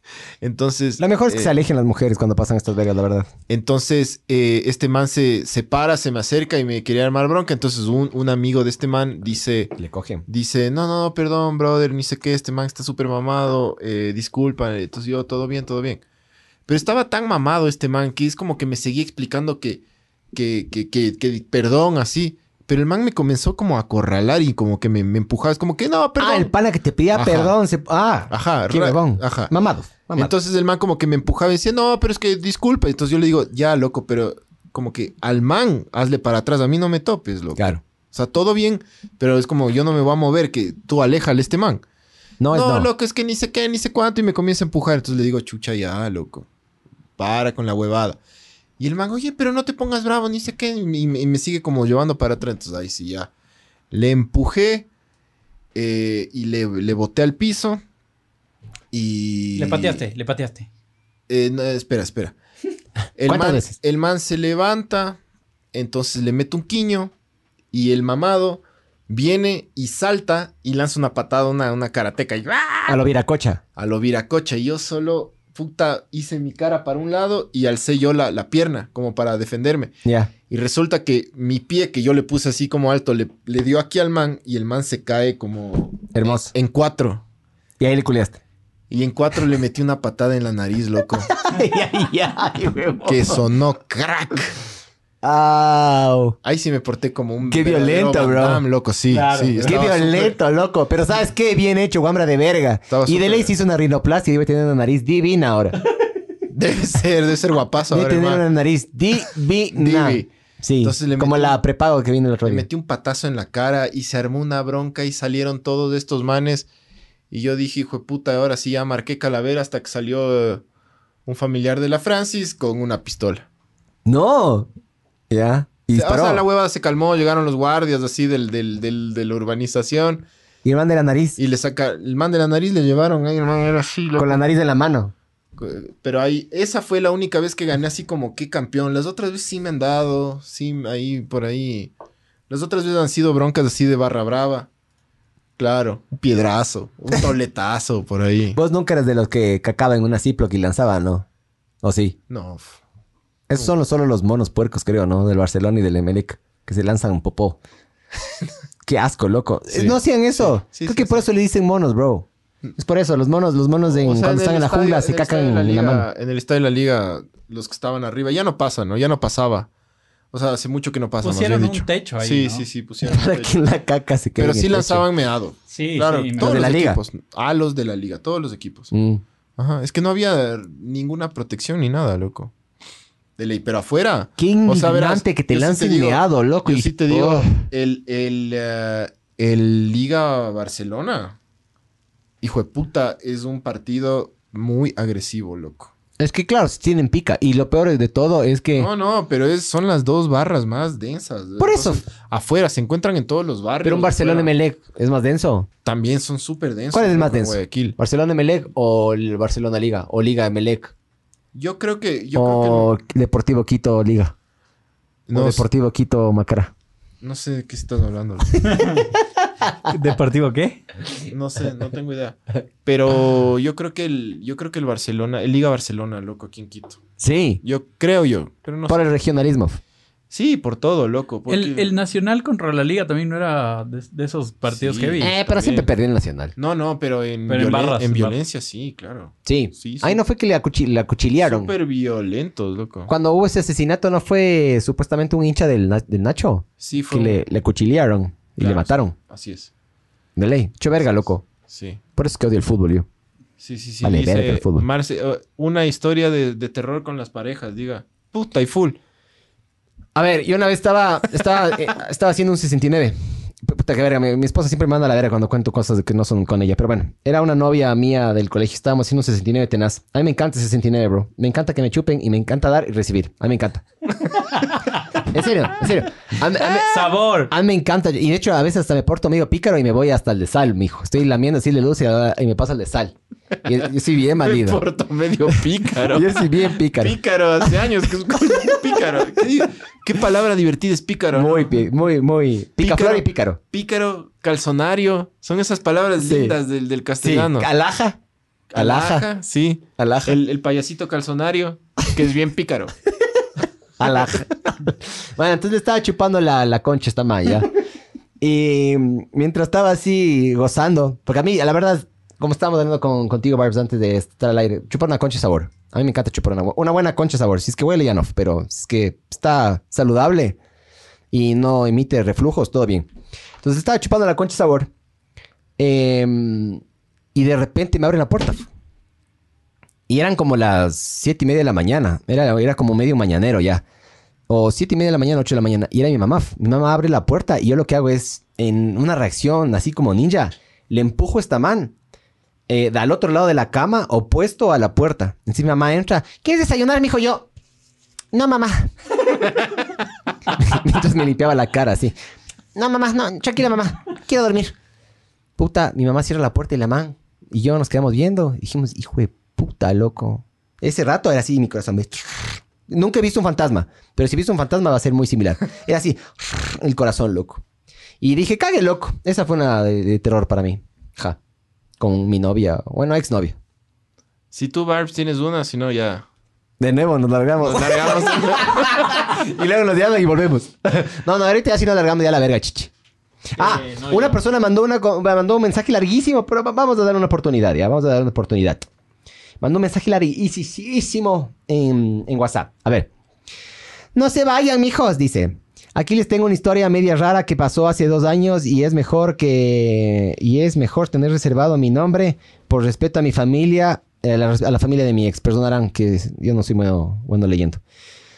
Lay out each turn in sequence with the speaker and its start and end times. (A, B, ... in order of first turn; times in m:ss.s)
0:00.4-0:01.5 A
0:01.0-0:03.3 B
0:03.5-0:09.7 A
0:09.8-0:10.2 B
0:10.3-0:16.0 A
0:16.7-0:19.8 A
0:20.3-0:26.5 A
0:26.2-0:30.3 B
0:27.1-0:27.5 A
0:28.3-0:29.5 A
0:30.2-0:41.8 A
0:42.4-0:42.9 B
0:42.5-0:46.5 A
0:47.2-0:48.2 A
0:48.8-0:53.3 A
0:53.9-0:54.9 A
0:55.8-0:57.8 A
0:58.9-1:00.0 A
0:59.6-1:00.7 C
1:01.3-1:02.4 A
1:03.2-1:05.2 A
1:03.3-1:03.7 B
1:05.7-1:07.1 A
1:07.7-1:13.0 A
1:12.9-1:13.6 B
1:13.8-1:19.9 A
1:20.0-1:20.3 B
1:20.5-1:27.2 A
1:26.1-1:26.5 B
1:27.8-1:28.4 B
1:28.9-1:31.3 A
1:31.3-1:33.4 B
1:33.0-1:34.6 A
1:35.2-1:36.4 B
1:36.4-1:40.4 A
1:37.5-1:38.6 B
1:39.1-1:39.8 C
1:39.6-1:45.8 B
1:42.9-1:43.5 A
1:46.5-1:48.4 A
1:47.9-1:52.7 B
1:49.7-1:50.3 A
1:50.8-1:51.6 A
1:52.4-1:56.7 A
1:57.3-2:00.6 A
2:01.3-2:03.4 A
2:04.1-2:04.7 B
2:05.3-2:06.4 B
2:05.9-2:10.2 A
2:10.6-2:11.4 B
2:11.4-2:14.4 A
2:14.2-2:15.1 B
2:15.6-2:21.9 A
2:22.5-2:24.7 A
2:25.6-2:28.6 A
2:28.5-2:31.2 B
2:31.8-2:32.2 B
2:32.3-2:32.8 A
2:33.5-2:37.6 B
2:38.8-2:46.1 B
2:39.7-2:41.3 A
2:43.9-2:49.7 A
2:50.3-2:53.5 A
2:51.2-2:52.7 C
2:53.0-2:55.0 B
2:54.4-2:58.9 A
2:55.7-2:56.6 C
2:56.4-2:57.0 B
2:58.9-2:59.2 B
2:59.6-3:02.5 A
3:03.4-3:11.4 A
3:04.4-3:07.6 B
3:12.4-3:15.9 A
3:16.2-3:18.9 B
3:18.8-3:24.5 A
3:21.6-3:22.0 B
3:23.8-3:25.7 B
3:25.8-3:28.0 A
3:26.9-3:30.9 B
3:31.5-3:32.9 A
3:32.4-3:34.3 B
3:35.3-3:35.7 A
3:35.3-3:36.7 B
3:37.2-3:39.0 A
3:38.6-3:39.1 C
3:39.6-3:39.9 B
3:39.9-3:40.8 C
3:41.2-3:47.0 A
3:47.2-3:47.6 B
3:47.6-3:49.0 A
3:48.9-3:49.8 B
3:50.3-3:51.9 A
3:51.5-3:55.8 C
3:54.7-3:55.9 A
3:55.2-3:56.6 B
3:56.6-4:00.2 A
3:57.5-3:58.4 C
3:59.5-4:01.7 B
4:01.4-4:03.1 A
4:03.1-4:09.1 B
4:06.8-4:07.4 A
4:08.6-4:09.7 A
4:10.4-4:11.4 B
4:11.7-4:12.0 A
4:12.2-4:13.1 B
4:13.6-4:19.0 A
4:14.0-4:14.9 B
4:20.2-4:33.8 B
4:34.6-4:34.9 C
4:35.2-4:44.8 B
4:36.6-4:37.5 C
4:44.4-4:51.8 A
4:46.0-4:47.2 B
4:51.3-4:53.6 B
4:52.8-4:57.7 A
4:56.2-4:56.6 B
4:57.2-4:58.2 B
4:58.7-5:02.9 A
4:58.8-4:59.3 B
5:00.0-5:00.4 B
5:04.0-5:07.7 B
5:08.4-5:20.6 B
5:21.3-5:23.1 B
5:23.6-5:24.9 B
5:25.8-5:26.8 B
5:27.4-5:28.7 B
5:30.1-5:33.8 B
5:34.5-5:42.0 B
5:42.7-5:47.5 B
5:48.3-5:48.9 B
5:50.6-5:52.2 B
5:52.8-5:54.8 B
5:55.6-6:07.6 B
6:08.2-6:11.4 B
6:12.0-6:13.6 B
6:14.5-6:16.2 A
6:16.8-6:22.9 B
6:17.6-6:19.3 A
6:23.6-6:24.4 C
6:23.6-6:28.9 B
6:29.6-6:33.1 B
6:34.2-6:47.8 B